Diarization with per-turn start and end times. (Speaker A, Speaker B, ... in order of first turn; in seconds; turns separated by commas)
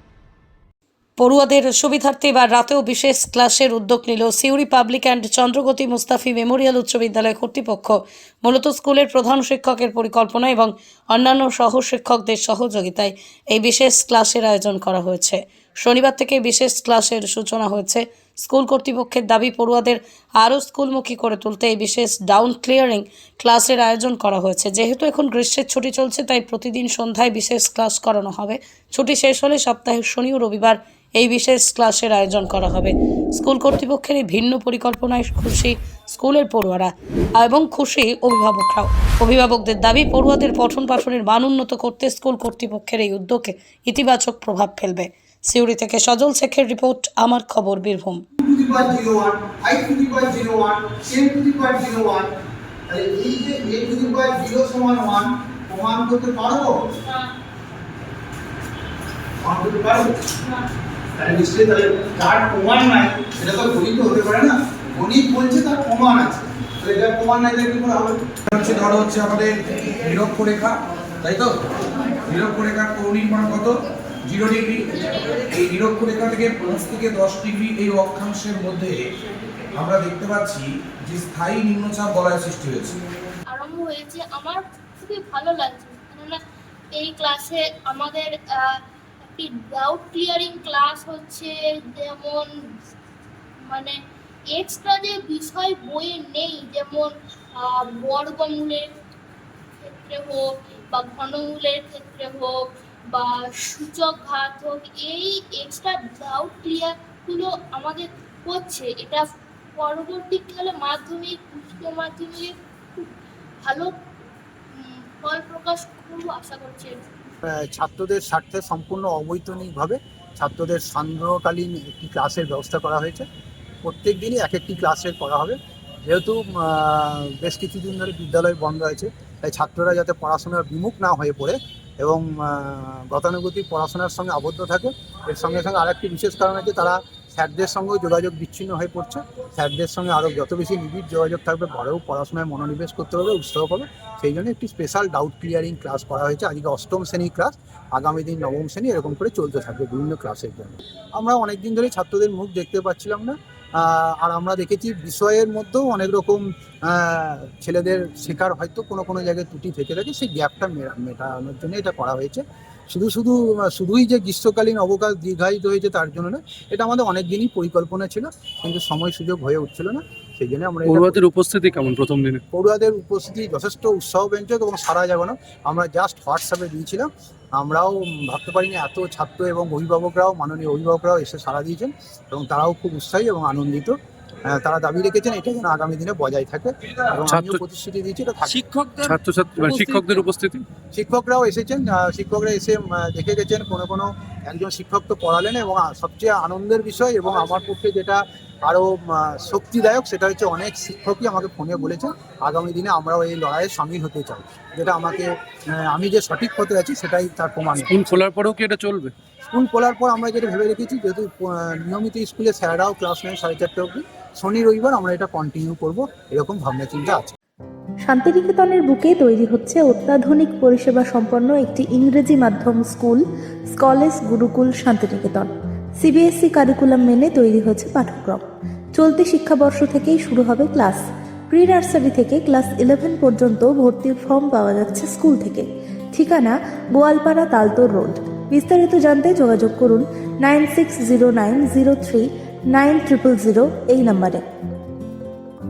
Speaker A: 1.2-48.2, Speaker B: 48.4-52.3, Speaker B: 52.9-56.8, Speaker C: 57.0-57.3, Speaker B: 59.4-60.1, Speaker C: 60.4-60.7, Speaker B: 61.2-68.2, Speaker D: 68.5-71.6, Speaker D: 72.2-79.1, Speaker D: 79.7-83.0, Speaker C: 83.5-86.4, Speaker C: 86.9-88.8, Speaker C: 89.3-92.5, Speaker C: 93.7-94.0, Speaker C: 94.5-98.8, Speaker C: 99.8-109.2, Speaker C: 109.8-113.1, Speaker C: 113.6-113.9, Speaker C: 114.7-117.0, Speaker B: 117.5-123.2, Speaker B: 123.8-171.2, Speaker E: 170.9-172.4, Speaker B: 172.5-188.7, Speaker E: 187.3-187.6, Speaker E: 188.6-190.7, Speaker B: 189.7-190.2, Speaker B: 190.9-208.0, Speaker E: 207.9-209.1, Speaker B: 209.5-217.3, Speaker F: 218.1-223.2, Speaker F: 223.7-225.5, Speaker F: 226.0-228.4, Speaker F: 228.9-244.4